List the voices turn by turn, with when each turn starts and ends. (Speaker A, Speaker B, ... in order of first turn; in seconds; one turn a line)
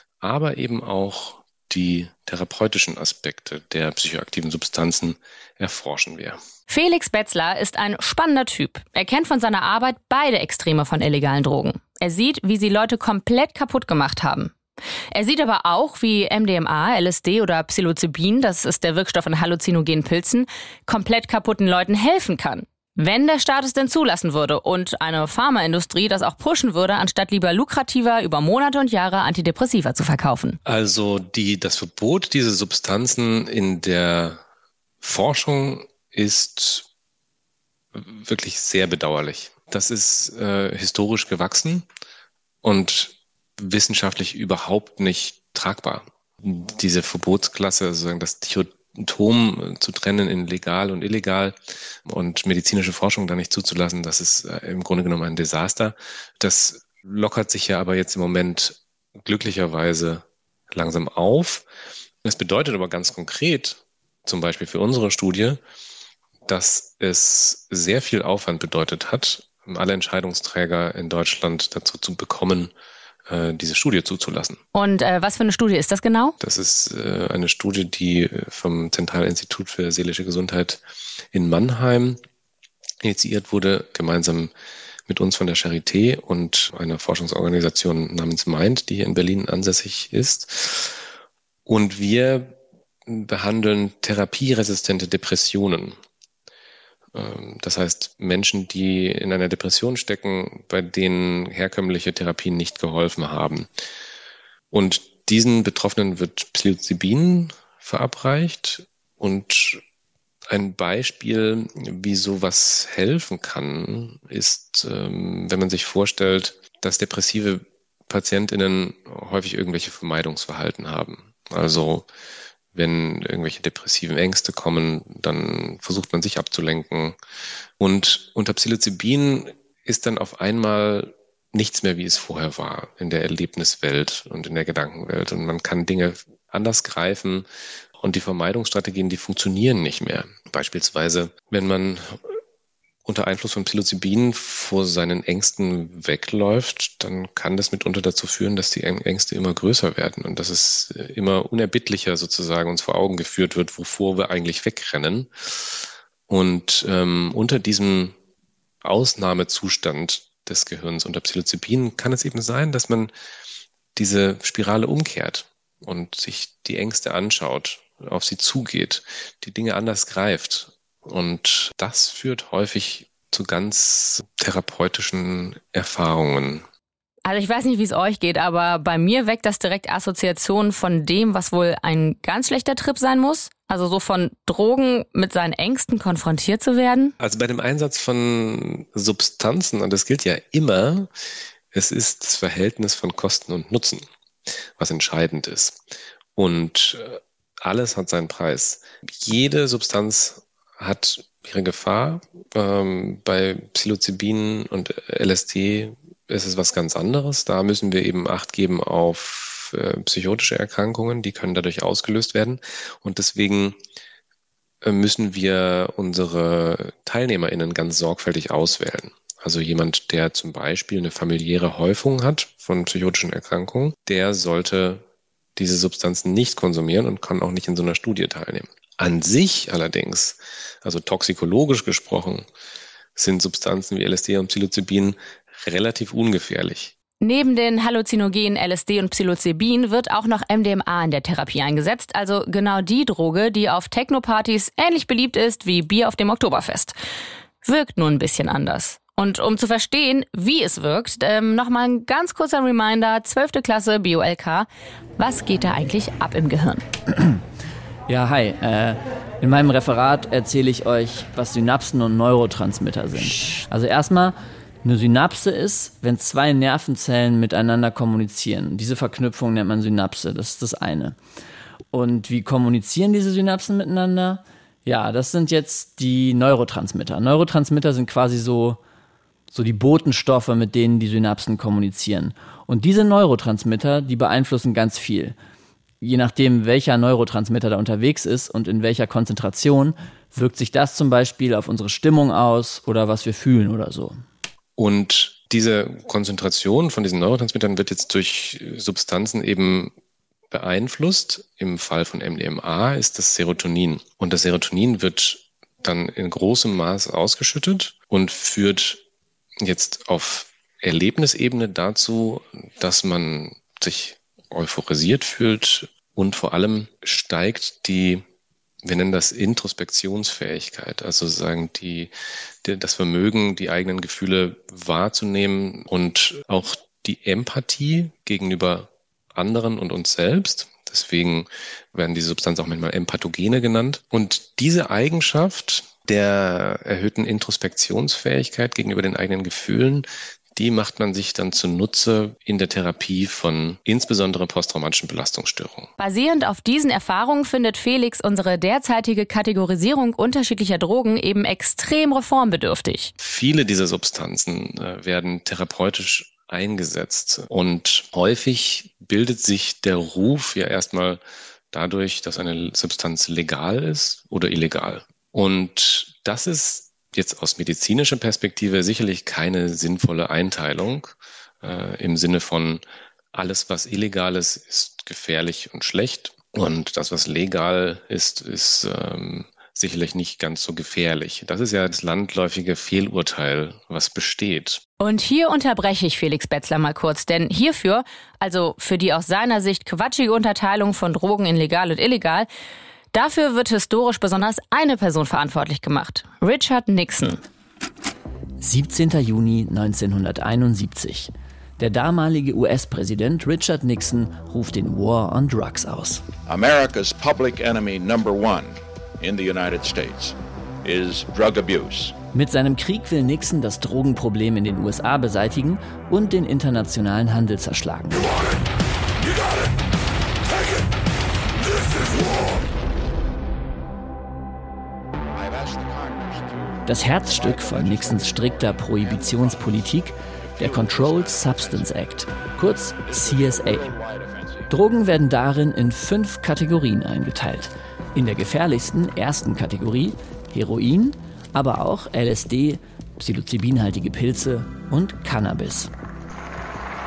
Speaker A: 0.2-6.4
Speaker B: 6.7-14.5
Speaker B: 15.1-30.6
Speaker A: 30.7-34.4
Speaker A: 35.0-36.9
Speaker A: 37.9-41.9
Speaker A: 42.6-61.6
Speaker A: 62.2-65.6
Speaker A: 66.5-72.7
Speaker A: 73.3-74.6
Speaker B: 74.7-76.4
Speaker A: 76.4-80.8
Speaker A: 81.3-82.2
Speaker A: 83.0-84.5
Speaker A: 85.1-91.0
Speaker A: 91.7-92.5
Speaker A: 93.1-96.0
Speaker A: 97.1-103.7
Speaker A: 104.7-109.8
Speaker A: 110.5-122.1
Speaker A: 122.7-127.2
Speaker A: 127.8-137.5
Speaker A: 138.0-142.2
Speaker A: 143.1-158.2
Speaker A: 158.8-163.1
Speaker A: 163.9-176.6
Speaker B: 177.2-187.1
Speaker A: 187.2-191.1
Speaker A: 191.7-194.1
Speaker A: 194.8-195.8
Speaker A: 196.4-213.8
Speaker A: 214.8-225.0
Speaker A: 225.6-232.4
Speaker A: 233.2-236.9
Speaker B: 237.2-246.9
Speaker B: 247.6-254.7
Speaker B: 255.2-256.8
Speaker C: 258.1-271.2
Speaker C: 271.9-278.8
Speaker C: 279.5-285.4
Speaker C: 286.0-294.1
Speaker A: 294.8-299.9
Speaker A: 300.5-309.0
Speaker A: 309.6-318.2
Speaker A: 318.8-322.1
Speaker A: 322.6-345.9
Speaker B: 346.0-353.1
Speaker A: 353.2-361.2
Speaker A: 361.7-372.8
Speaker A: 373.3-384.8
Speaker B: 385.0-392.5
Speaker B: 393.1-397.4
Speaker C: 398.6-406.2
Speaker D: 406.5-412.1
Speaker C: 412.3-418.3
Speaker D: 425.4-429.9
Speaker C: 426.9-433.9
Speaker D: 430.6-431.9
Speaker D: 433.0-434.7
Speaker C: 434.7-445.9